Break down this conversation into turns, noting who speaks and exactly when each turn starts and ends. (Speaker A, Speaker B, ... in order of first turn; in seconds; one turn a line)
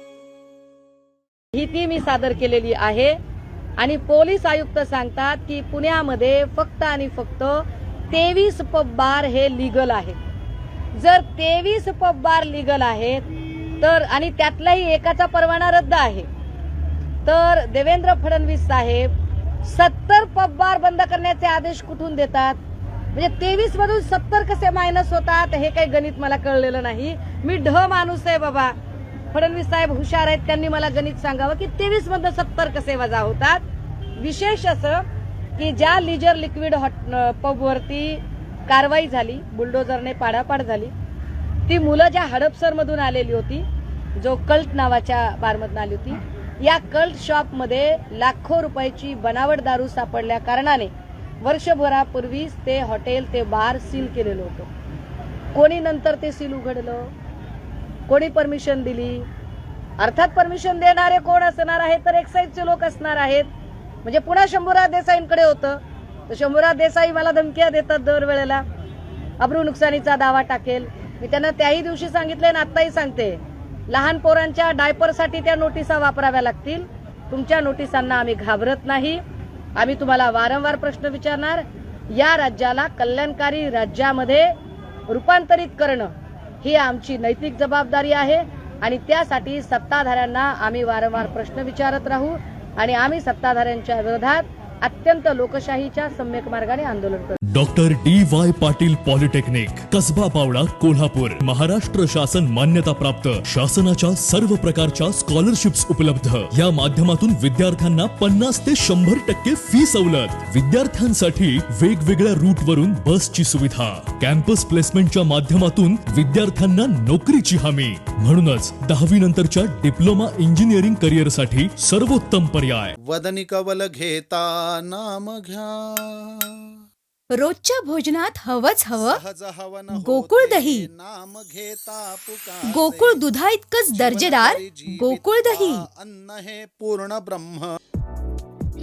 Speaker A: 1.5-3.1
Speaker A: 3.8-10.2
Speaker A: 11.0-13.2
Speaker A: 13.8-16.3
Speaker A: 17.3-19.1
Speaker A: 19.6-22.6
Speaker A: 23.1-28.7
Speaker A: 29.3-33.6
Speaker A: 34.2-35.0
Speaker A: 35.6-40.9
Speaker A: 41.7-43.6
Speaker A: 44.2-54.7
Speaker A: 55.5-57.1
Speaker A: 58.1-59.3
Speaker A: 60.0-63.5
Speaker A: 64.0-68.6
Speaker A: 69.4-79.2
Speaker A: 79.8-84.5
Speaker A: 85.1-97.4
Speaker B: 97.5-122.9
Speaker C: 123.0-126.7
Speaker D: 127.4-129.2
Speaker C: 128.9-133.3
Speaker D: 129.9-130.9
Speaker D: 132.6-135.9
Speaker C: 133.8-137.8